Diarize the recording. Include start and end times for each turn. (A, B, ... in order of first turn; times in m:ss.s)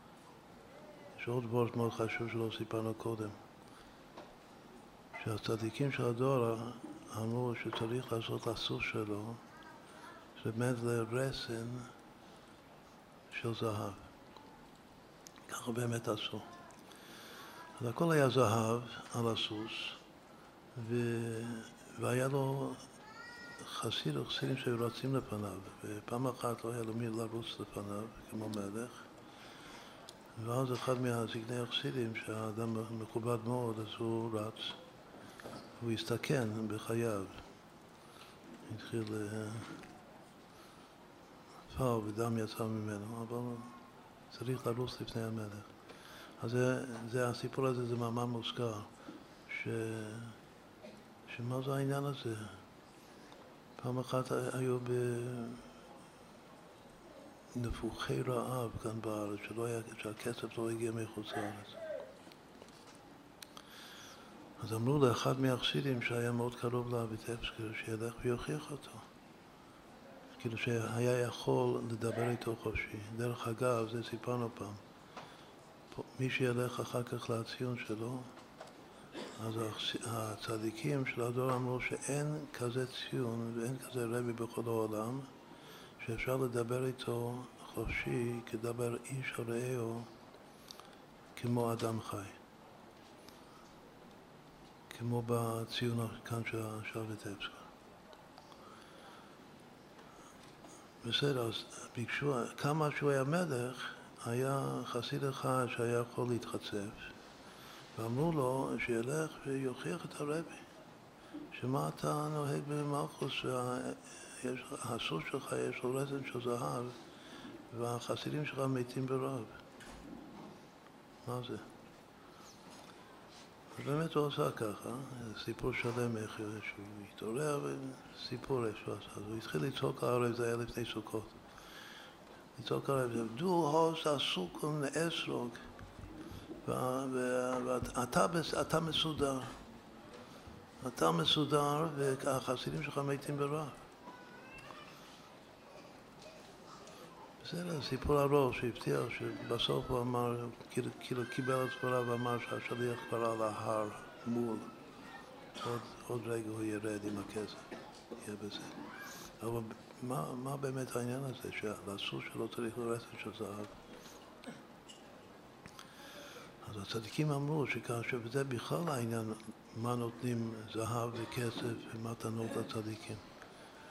0:01.2-0:03.4 A
0:05.2-0:09.4 A
0:10.4-0:11.9 A
0:13.3-0:14.1 A
0:15.5-0:16.4 A
0:17.8-0:20.0 A
0:20.7-0:22.9 A
0:23.6-0:29.1 A
0:30.3-0:34.8 A
0:35.8-0:37.4 A
0:38.6-0:39.8 A
0:41.7-0:43.7 A
0:44.3-0:45.7 A
0:46.4-0:48.9 A
0:49.5-0:50.4 A
0:51.3-0:52.6 A
0:53.8-0:55.7 A
0:57.5-1:01.8 A
1:04.6-1:09.0 A
1:10.3-1:14.8 A
1:15.9-1:18.3 A
1:19.4-1:25.3 A
1:26.0-1:30.1 A
1:31.3-1:32.4 A
1:34.9-1:37.7 A
1:41.0-1:47.1 A
1:47.9-1:50.6 A
1:51.5-1:57.0 A
1:57.7-1:59.6 A
2:01.2-2:01.7 A
2:03.7-2:11.4 A
2:12.6-2:15.6 A
2:16.6-2:19.6 A
2:20.8-2:23.8 A
2:27.4-2:34.7 A
2:35.6-2:43.8 A
2:46.6-2:53.2 A